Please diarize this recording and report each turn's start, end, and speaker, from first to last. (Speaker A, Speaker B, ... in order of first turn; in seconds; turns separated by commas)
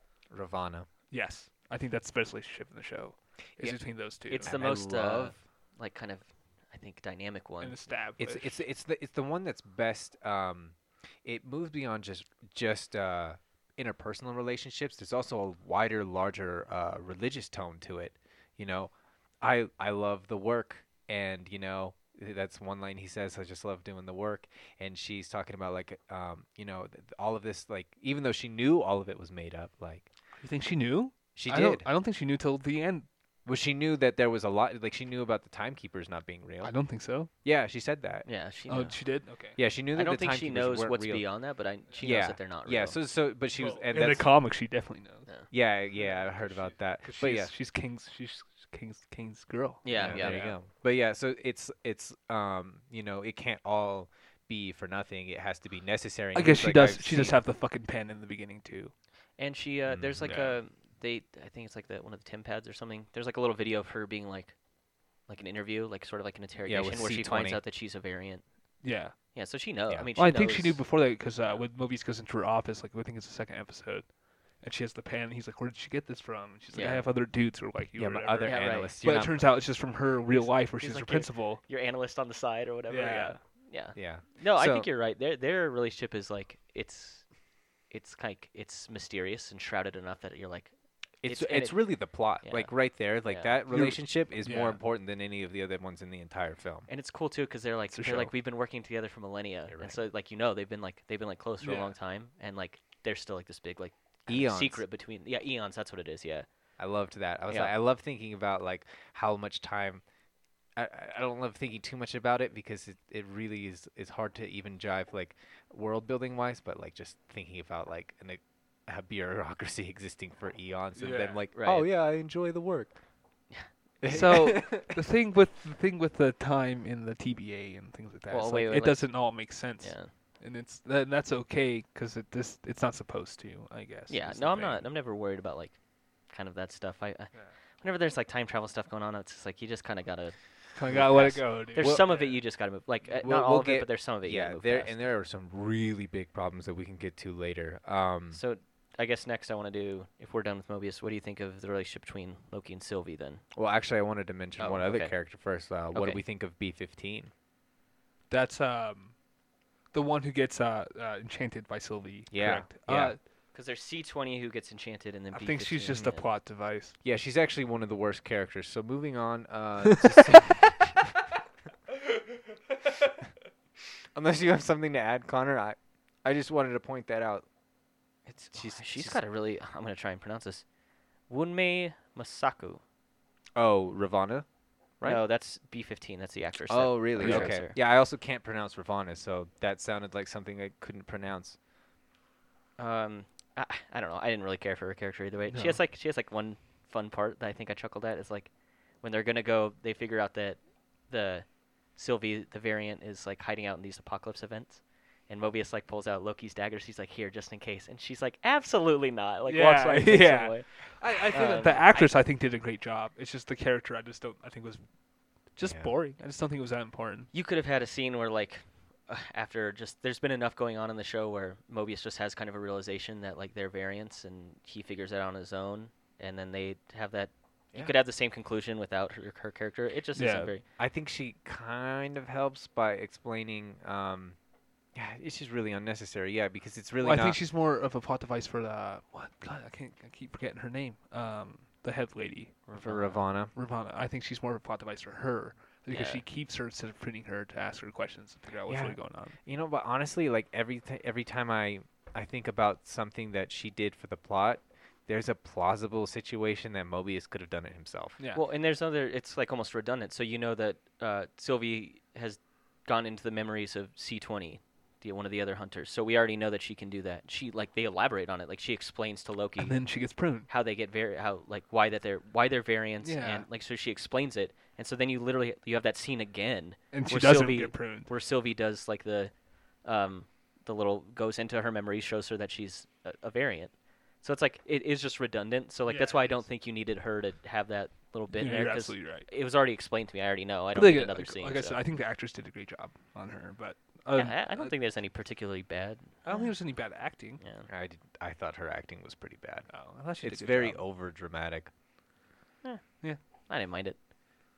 Speaker A: 0.3-0.9, Speaker B: 1.1-4.5, Speaker C: 4.3-7.8, Speaker A: 4.3-5.4, Speaker B: 7.6-8.6, Speaker A: 8.2-30.1, Speaker B: 30.4-33.1, Speaker A: 31.4-31.9, Speaker A: 33.5-36.7, Speaker B: 36.6-37.3, Speaker A: 37.4-38.3, Speaker C: 38.2-39.0, Speaker B: 38.7-39.6, Speaker A: 39.6-41.3, Speaker C: 39.9-43.0, Speaker A: 42.0-44.3, Speaker B: 43.5-45.3, Speaker A: 45.5-47.5, Speaker B: 45.9-50.6, Speaker C: 49.8-50.5, Speaker A: 49.9-57.4, Speaker B: 56.3-58.9, Speaker C: 59.4-64.6, Speaker A: 59.9-60.4, Speaker B: 60.3-60.6, Speaker C: 65.3-68.5, Speaker A: 66.7-67.6, Speaker B: 68.8-69.2, Speaker C: 69.3-70.8, Speaker B: 70.2-81.6, Speaker C: 76.7-77.1, Speaker A: 78.0-79.5, Speaker C: 78.4-79.0, Speaker C: 80.3-93.6, Speaker B: 82.9-83.4, Speaker A: 84.0-84.9, Speaker A: 91.2-96.9, Speaker B: 93.7-94.8, Speaker C: 96.9-106.5, Speaker B: 97.9-98.3, Speaker A: 99.7-100.0, Speaker B: 101.6-101.9, Speaker A: 104.3-104.8, Speaker A: 106.8-110.0, Speaker A: 110.8-123.0, Speaker B: 121.0-121.4, Speaker C: 121.5-121.9, Speaker A: 124.0-125.0, Speaker B: 124.1-134.9, Speaker C: 128.3-130.1, Speaker C: 134.1-145.1, Speaker B: 140.8-142.4, Speaker A: 140.9-142.1, Speaker A: 143.2-148.4, Speaker C: 148.3-153.4, Speaker A: 153.6-157.3, Speaker C: 154.6-155.2, Speaker C: 155.9-156.2, Speaker B: 158.3-159.2, Speaker B: 159.9-163.2, Speaker A: 162.3-163.2, Speaker C: 163.5-166.3, Speaker B: 165.3-167.0, Speaker A: 167.0-171.2, Speaker B: 169.9-170.4, Speaker A: 174.1-177.5, Speaker C: 178.3-180.7, Speaker A: 178.5-179.2, Speaker C: 181.3-182.8, Speaker A: 183.6-184.5, Speaker C: 185.0-187.8, Speaker A: 186.7-191.6, Speaker B: 187.2-187.6, Speaker C: 192.8-212.2, Speaker B: 195.5-195.8, Speaker B: 209.5-214.8, Speaker B: 215.6-217.3, Speaker A: 215.6-215.9, Speaker C: 217.3-230.6, Speaker B: 230.2-230.5, Speaker A: 230.8-234.4, Speaker A: 234.9-237.4, Speaker B: 237.0-242.6, Speaker C: 242.7-243.2, Speaker A: 242.8-243.5, Speaker B: 243.5-249.4, Speaker C: 245.9-246.2, Speaker A: 248.7-258.2, Speaker B: 258.2-258.4, Speaker C: 258.3-269.8, Speaker B: 269.6-270.5, Speaker C: 270.5-291.8, Speaker B: 273.0-273.5, Speaker B: 276.9-278.1, Speaker B: 285.9-286.4, Speaker B: 288.3-289.3, Speaker B: 290.7-294.8, Speaker C: 294.1-296.5, Speaker B: 296.2-297.4, Speaker C: 297.4-297.7, Speaker A: 297.7-301.7, Speaker B: 299.7-300.8, Speaker C: 302.6-304.1